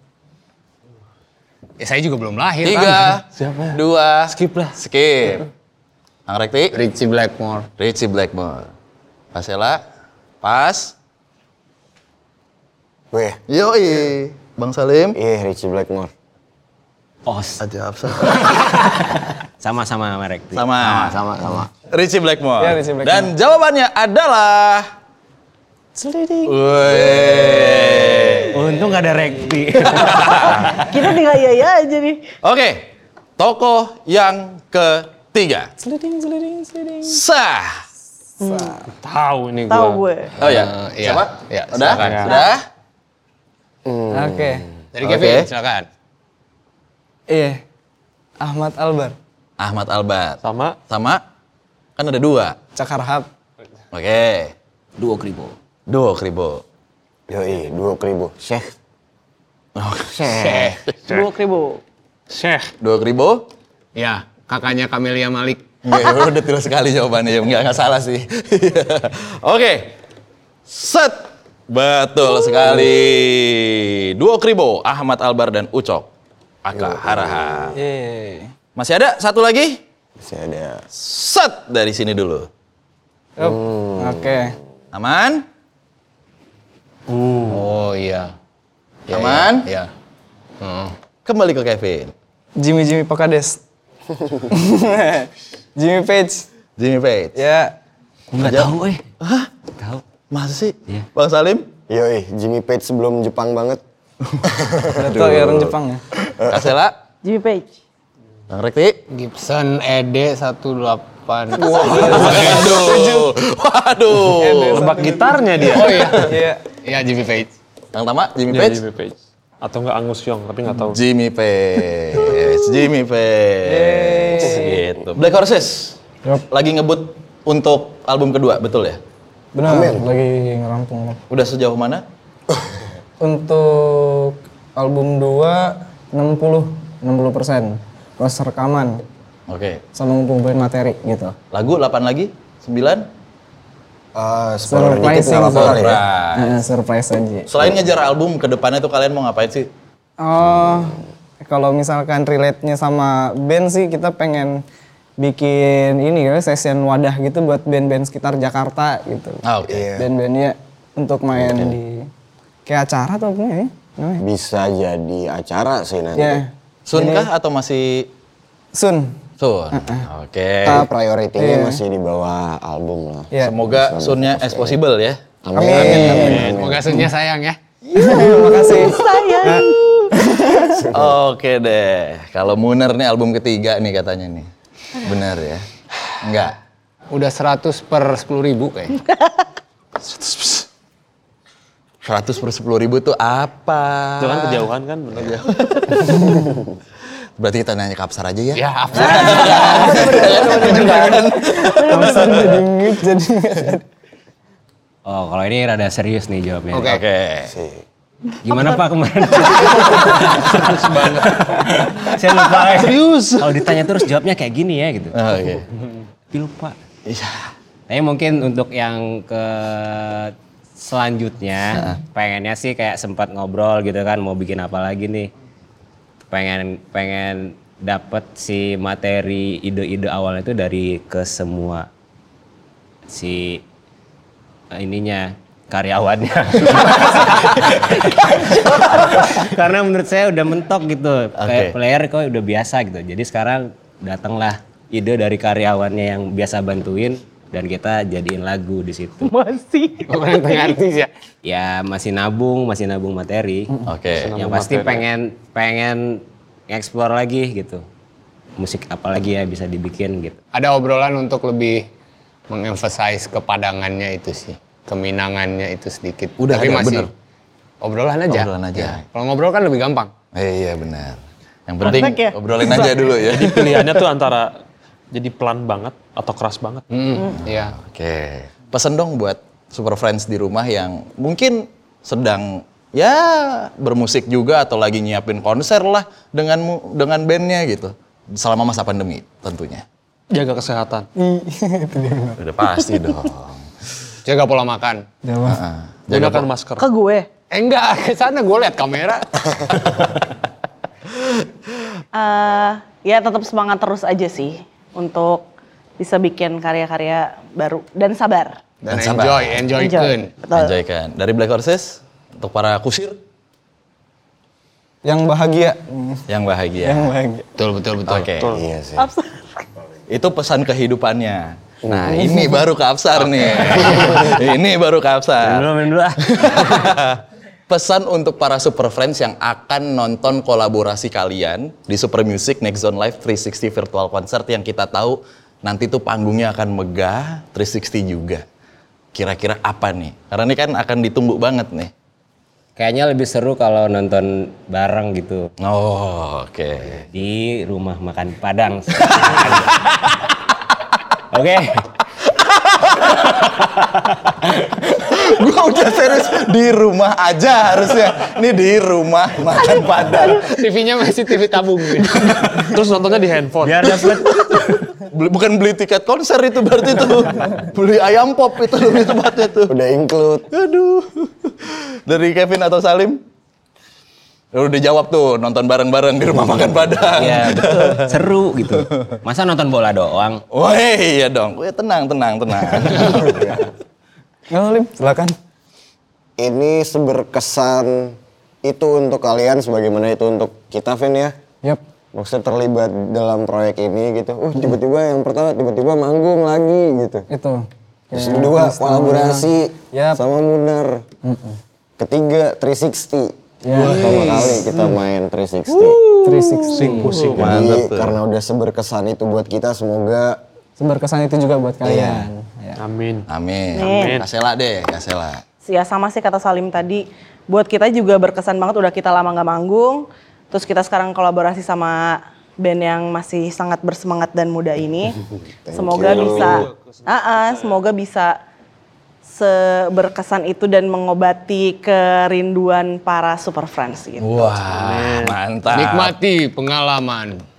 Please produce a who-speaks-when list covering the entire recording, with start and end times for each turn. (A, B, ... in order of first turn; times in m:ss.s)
0:01.8-0:03.2 A
0:02.6-0:05.5 B
0:03.2-0:04.8 C
0:06.3-0:06.8 B
0:06.7-0:07.7 A
0:07.8-0:08.7 B
0:09.3-0:09.8 B
0:10.4-0:10.9 B
0:13.1-0:13.4 D
0:13.5-0:15.2 B
0:15.1-0:16.1 D
0:17.2-0:17.6 E
0:17.6-0:18.9 B
0:19.6-0:21.6 E
0:20.5-0:21.2 B
0:21.1-0:21.7 D
0:21.9-0:24.9 B
0:22.6-0:23.3 F
0:26.0-0:26.5 F
0:26.4-0:28.6 B
0:27.2-0:27.7 D
0:28.5-0:30.4 E
0:29.8-0:30.9 B
0:30.4-0:32.2 G
0:32.4-0:35.7 B
0:35.8-0:37.2 F
0:37.0-0:37.8 B
0:38.4-0:38.8 G
0:39.0-0:40.0 C
0:39.7-0:40.4 G
0:40.4-0:42.6 B
0:40.4-0:42.4 A
0:42.0-0:42.4 C
0:43.8-0:44.7 D
0:44.1-0:44.7 F
0:44.9-0:45.9 A
0:45.0-0:45.5 B
0:47.3-0:47.6 F
0:48.4-0:49.2 F
0:49.6-0:51.2 B
0:50.4-0:50.8 C
0:52.0-0:52.6 B
0:52.7-0:53.3 F
0:53.9-0:54.5 B
0:55.0-0:55.5 E
0:55.9-0:56.6 B
0:57.3-0:58.7 D
0:59.8-1:00.7 B
1:00.1-1:00.7 D
1:00.3-1:00.8 A
1:01.0-1:01.3 C
1:01.1-1:01.8 G
1:02.3-1:02.7 C
1:02.8-1:03.5 B
1:04.0-1:05.6 A
1:05.8-1:10.0 B
1:10.7-1:16.1 B
1:16.6-1:17.8 B
1:16.7-1:17.7 D
1:17.7-1:18.5 F
1:18.8-1:19.8 B
1:20.2-1:20.8 D
1:20.9-1:22.5 B
1:23.4-1:24.5 F
1:23.4-1:24.4 D
1:24.9-1:25.4 B
1:27.1-1:27.6 C
1:27.2-1:28.3 A
1:29.1-1:29.9 A
1:29.1-1:29.6 B
1:30.6-1:30.9 A
1:31.2-1:32.1 B
1:32.6-1:33.6 F
1:34.5-1:36.4 F
1:36.8-1:37.3 B
1:37.3-1:37.7 F
1:38.3-1:39.0 E
1:38.4-1:39.5 B
1:40.3-1:41.6 B
1:41.9-1:43.8 D
1:44.3-1:46.9 B
1:44.5-1:44.8 D
1:44.9-1:46.0 F
1:46.4-1:46.6 D
1:47.2-1:47.7 G
1:48.5-1:49.0 B
1:49.1-1:52.7 A
1:51.6-1:54.8 B
1:51.9-1:53.0 F
1:54.2-1:56.6 F
1:54.7-1:56.2 C
1:55.7-1:57.5 A
1:57.9-1:58.8 B
1:58.5-2:01.0 C
2:00.9-2:06.0 B
2:03.6-2:04.8 F
2:06.5-2:09.0 B
2:09.5-2:11.2 F
2:09.7-2:10.0 D
2:11.3-2:12.0 B
2:13.2-2:19.0 F
2:19.5-2:19.8 B
2:19.9-2:21.4 F
2:21.5-2:23.1 B
2:24.1-2:26.0 D
2:24.7-2:25.8 F
2:25.4-2:26.6 B
2:26.3-2:27.5 F
2:27.5-2:29.7 B
2:30.2-2:34.6 F
2:35.2-2:39.4 F
2:39.4-2:39.9 B
2:39.6-2:40.1 D
2:40.0-2:42.1 F
2:42.6-2:44.2 F
2:44.2-2:46.4 D
2:46.2-2:47.3 F
2:46.9-2:48.1 B
2:48.7-2:49.2 F
2:49.4-2:50.9 B
2:49.7-2:50.1 F
2:50.6-2:54.8 D
2:51.4-2:51.8 F
2:53.4-2:55.2 B
2:55.4-2:57.0 D
2:55.5-2:56.5 F
2:55.7-2:57.6 A
2:55.8-2:56.3 B
2:58.0-3:00.7 F
2:58.0-2:58.4 B
2:58.0-2:59.8 G
2:59.5-3:00.1 B
3:00.6-3:01.2 D
3:00.9-3:04.5 B
3:05.0-3:05.6 B
3:06.2-3:06.6 B
3:07.1-3:09.0 A
3:10.0-3:10.6 B
3:12.0-3:16.6 B
3:14.2-3:15.5 C
3:16.1-3:16.4 F
3:17.4-3:22.6 B
3:18.5-3:20.6 A
3:19.0-3:22.4 G
3:20.6-3:23.8 F
3:25.0-3:27.0 E
3:26.7-3:27.0 A
3:26.8-3:27.5 B
3:27.5-3:27.8 D
3:28.4-3:35.1 E
3:29.4-3:31.4 B
3:32.3-3:34.0 B
3:35.1-3:35.6 B
3:36.3-3:36.8 E
3:37.1-3:37.5 B
3:37.9-3:45.3 E
3:46.3-3:51.9 E
3:53.1-3:53.6 E
3:54.7-4:09.3 E
3:57.1-3:58.0 B
3:58.7-3:59.0 B
4:01.4-4:01.8 B
4:09.2-4:10.1 G
4:10.0-4:11.1 A
4:11.4-4:13.8 E
4:13.8-4:14.3 B
4:14.1-4:15.0 C
4:14.3-4:17.8 E
4:18.6-4:20.4 E
4:20.5-4:21.8 A
4:22.5-4:27.1 A
4:26.4-4:27.1 B
4:27.8-4:30.1 A
4:28.3-4:29.0 B
4:30.3-4:34.0 B
4:31.8-4:32.9 G
4:32.8-4:34.6 C
4:35.1-4:36.8 C
4:36.9-4:37.7 A
4:37.3-4:49.8 B
4:50.3-4:51.1 C
4:51.2-4:52.4 F
4:52.4-4:53.6 B
4:54.2-4:55.1 A
4:55.2-4:55.6 F
4:55.4-4:56.5 B
4:56.1-4:56.9 C
4:56.8-4:57.3 G
4:57.5-4:59.3 A
5:02.1-5:05.4 G
5:06.0-5:08.6 G
5:08.8-5:10.3 A
5:08.9-5:09.7 B
5:09.7-5:10.7 G
5:10.5-5:13.2 B
5:15.0-5:16.2 F
5:16.3-5:17.1 B
5:16.8-5:17.5 F
5:17.6-5:18.3 A
5:18.1-5:18.6 B
5:18.4-5:18.6 C
5:18.5-5:19.1 D
5:19.0-5:19.5 G
5:20.1-5:38.4 B
5:22.1-5:22.6 F
5:23.6-5:24.0 A
5:23.7-5:24.3 E
5:25.4-5:26.2 E
5:39.1-5:41.9 B
5:42.8-5:45.5 E
5:45.6-5:47.0 B
5:47.1-5:49.6 E
5:49.0-5:50.2 B
5:51.3-5:51.8 E
5:52.3-5:53.3 B
5:53.8-5:54.4 E
5:54.7-6:00.6 B
6:00.3-6:02.4 A
6:02.0-6:02.7 B
6:02.4-6:04.1 C
6:03.6-6:04.8 E
6:03.8-6:09.7 B
6:09.7-6:10.5 D
6:10.5-6:13.2 B
6:14.5-6:18.8 B
6:17.1-6:20.4 E
6:20.5-6:23.4 B
6:23.0-6:23.7 D
6:24.5-6:25.3 F
6:26.4-6:31.3 D
6:32.1-6:37.3 D
6:37.3-6:40.2 F
6:38.1-6:41.0 D
6:41.2-6:41.6 F
6:42.0-6:46.0 D
6:43.6-6:44.7 F
6:43.8-6:44.5 C
6:45.7-6:47.7 C
6:46.2-6:47.1 F
6:46.8-6:48.2 B
6:47.4-6:50.4 D
6:50.8-6:52.8 F
6:51.8-6:52.3 D
6:52.8-6:54.3 C
6:53.3-6:55.4 B
6:53.7-6:54.2 G
6:55.6-7:05.2 G
7:05.7-7:06.7 D
7:05.7-7:08.4 G
7:06.0-7:07.8 C
7:09.3-7:14.5 G
7:14.2-7:16.1 B
7:14.7-7:15.4 C
7:15.7-7:17.4 A